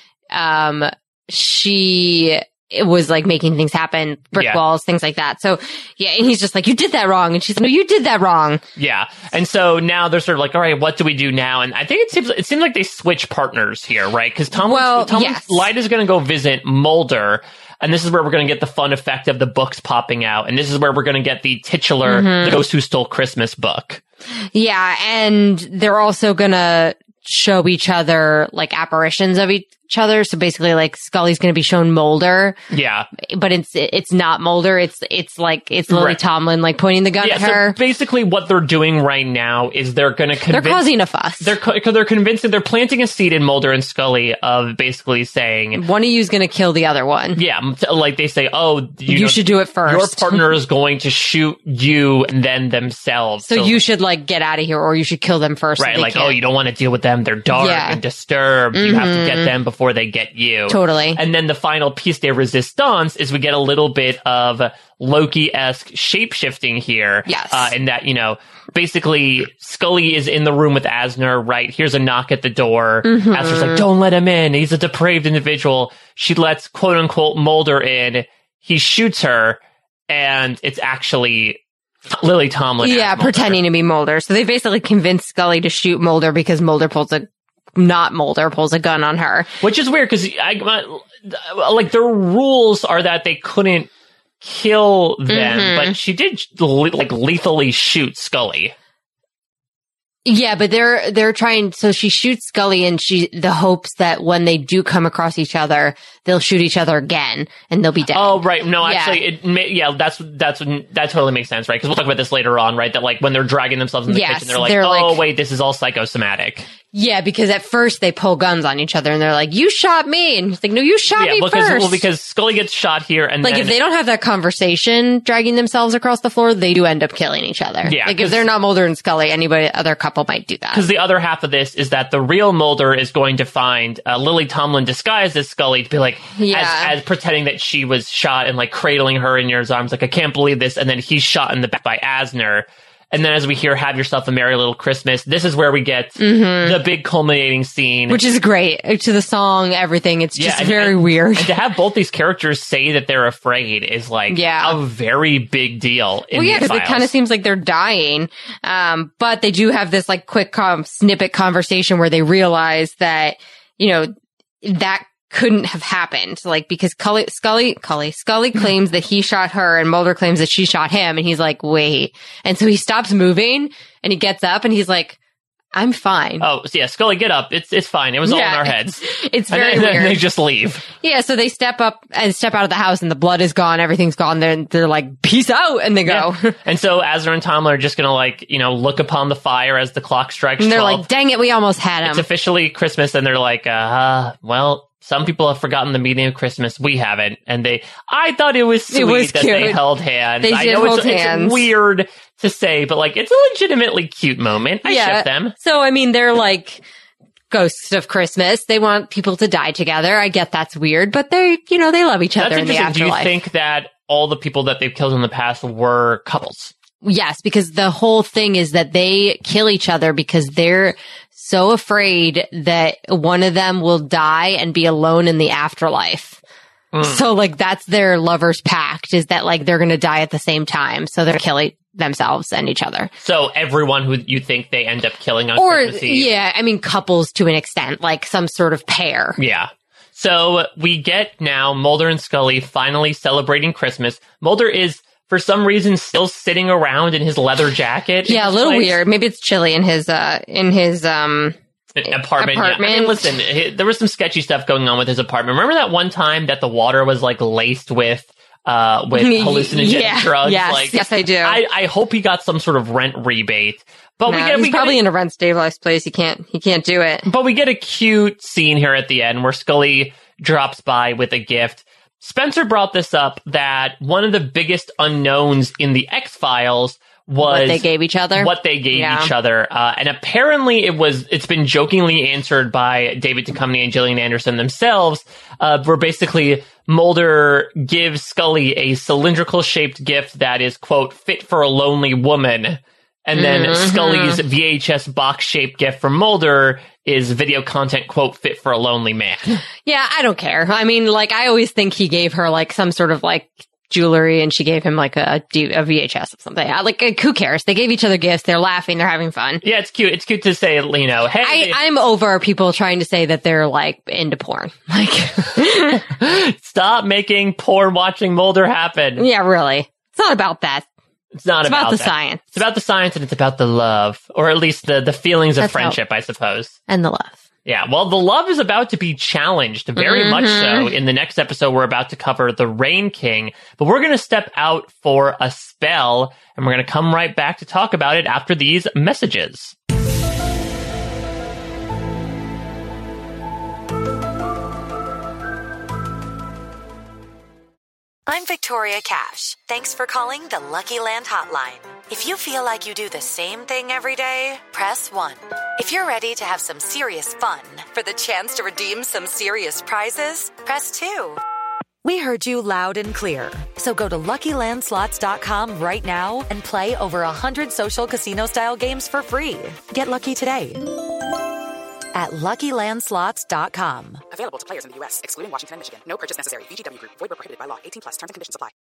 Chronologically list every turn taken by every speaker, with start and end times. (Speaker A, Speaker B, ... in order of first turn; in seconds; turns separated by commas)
Speaker A: 0.3-8.6, Speaker B: 8.8-24.0, Speaker A: 14.6-15.7, Speaker A: 22.1-22.6, Speaker A: 24.5-32.6, Speaker B: 32.7-33.1, Speaker A: 33.2-37.8, Speaker B: 35.9-36.2, Speaker B: 37.2-40.9, Speaker A: 40.5-41.5, Speaker B: 41.4-45.8, Speaker A: 45.8-47.4, Speaker B: 47.4-53.8, Speaker A: 49.1-50.5, Speaker A: 53.4-56.4, Speaker B: 55.8-83.6, Speaker A: 57.5-58.0, Speaker A: 58.7-59.5, Speaker A: 60.7-61.2, Speaker A: 67.3-67.7, Speaker A: 73.0-73.8, Speaker A: 82.8-89.5, Speaker B: 89.6-93.9, Speaker B: 94.4-98.7, Speaker A: 95.3-96.0, Speaker A: 100.2-109.2, Speaker B: 108.1-116.7, Speaker A: 114.1-115.2, Speaker A: 116.9-122.0, Speaker B: 121.2-123.8, Speaker A: 123.4-130.8, Speaker B: 127.8-128.4, Speaker B: 130.7-148.2, Speaker A: 136.4-136.9, Speaker A: 146.2-146.8, Speaker A: 148.1-151.6, Speaker B: 150.3-157.1, Speaker A: 154.3-154.8, Speaker A: 156.3-175.2, Speaker A: 175.7-176.4, Speaker B: 176.4-180.8, Speaker A: 178.2-180.2, Speaker A: 181.0-186.5, Speaker B: 186.1-191.1, Speaker A: 190.6-192.3, Speaker B: 192.1-205.5, Speaker A: 198.9-199.8, Speaker A: 200.4-201.7, Speaker A: 204.8-206.8, Speaker A: 207.5-213.3, Speaker B: 212.4-216.7, Speaker A: 217.0-226.4, Speaker B: 226.9-227.3, Speaker A: 227.0-233.1, Speaker B: 233.2-236.3, Speaker A: 235.6-239.4, Speaker B: 239.4-249.0, Speaker A: 248.3-251.6, Speaker B: 252.0-265.0, Speaker A: 252.1-253.2, Speaker A: 259.1-261.6, Speaker A: 264.3-267.3, Speaker B: 267.3-299.6, Speaker A: 277.4-279.3, Speaker A: 293.4-294.4, Speaker A: 299.9-309.6, Speaker B: 309.6-311.8, Speaker A: 311.4-316.0, Speaker B: 316.1-319.3, Speaker A: 319.2-320.9, Speaker B: 321.4-326.8, Speaker A: 321.6-322.6, Speaker A: 325.6-326.0, Speaker A: 326.9-327.4, Speaker B: 327.7-339.8, Speaker A: 330.0-330.9, Speaker C: 348.3-361.4, Speaker C: 362.0-370.9, Speaker C: 372.1-374.2, Speaker D: 374.3-378.7